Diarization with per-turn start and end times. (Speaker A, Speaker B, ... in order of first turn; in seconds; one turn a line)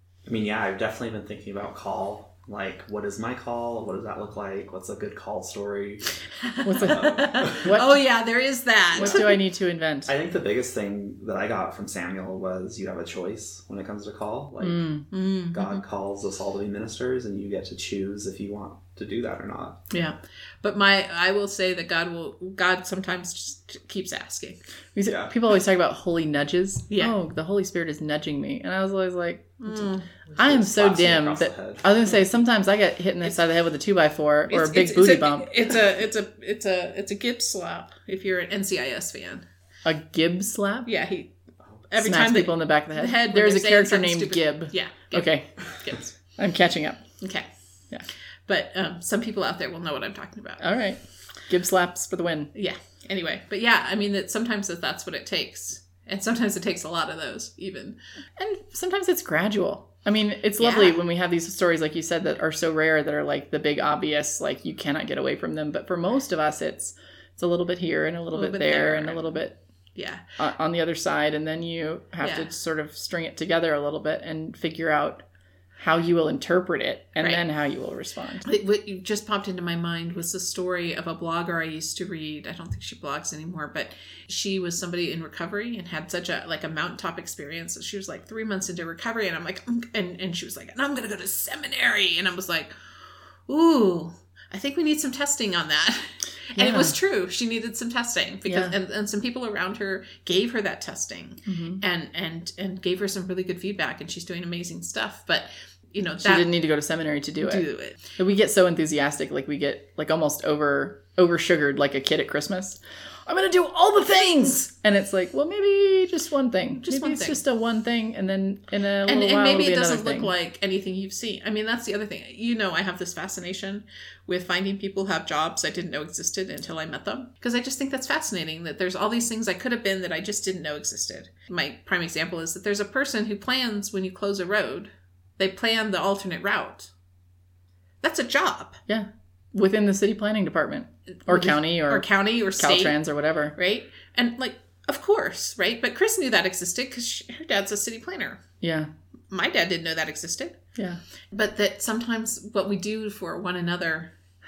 Speaker A: 0.2-6.1
Speaker B: 6.2-9.4
Speaker C: 6.6-8.0
Speaker A: 6.8-7.7
Speaker C: 8.9-10.1
Speaker A: 9.0-9.3
Speaker A: 10.1-14.9
Speaker C: 14.6-15.1
Speaker B: 15.1-15.8
Speaker A: 15.5-19.9
Speaker B: 19.9-24.6
Speaker C: 24.9-35.6
Speaker A: 25.1-25.3
Speaker B: 29.6-30.1
Speaker A: 30.2-32.1
Speaker B: 34.5-39.4
Speaker C: 39.8-40.9
Speaker B: 40.9-41.3
Speaker B: 41.9-46.1
Speaker C: 42.0-45.6
Speaker C: 46.3-47.1
Speaker B: 47.2-47.5
Speaker B: 48.5-50.7
Speaker C: 50.6-52.5
Speaker B: 52.5-58.0
Speaker C: 58.4-69.6
Speaker B: 60.6-61.0
Speaker B: 68.3-69.4
Speaker B: 69.9-70.2
Speaker C: 70.4-75.2
Speaker B: 72.2-72.5
Speaker C: 75.8-78.5
Speaker B: 78.4-92.7
Speaker B: 93.5-106.5
Speaker C: 96.6-96.9
Speaker C: 98.5-98.7
Speaker C: 101.5-101.8
Speaker C: 106.2-120.3
Speaker B: 107.4-108.0
Speaker B: 116.8-117.4
Speaker B: 119.0-136.9
Speaker B: 138.0-138.8
Speaker C: 138.9-143.6
Speaker B: 141.2-143.0
Speaker B: 143.6-148.4
Speaker C: 148.6-148.9
Speaker B: 149.3-150.6
Speaker B: 151.3-154.1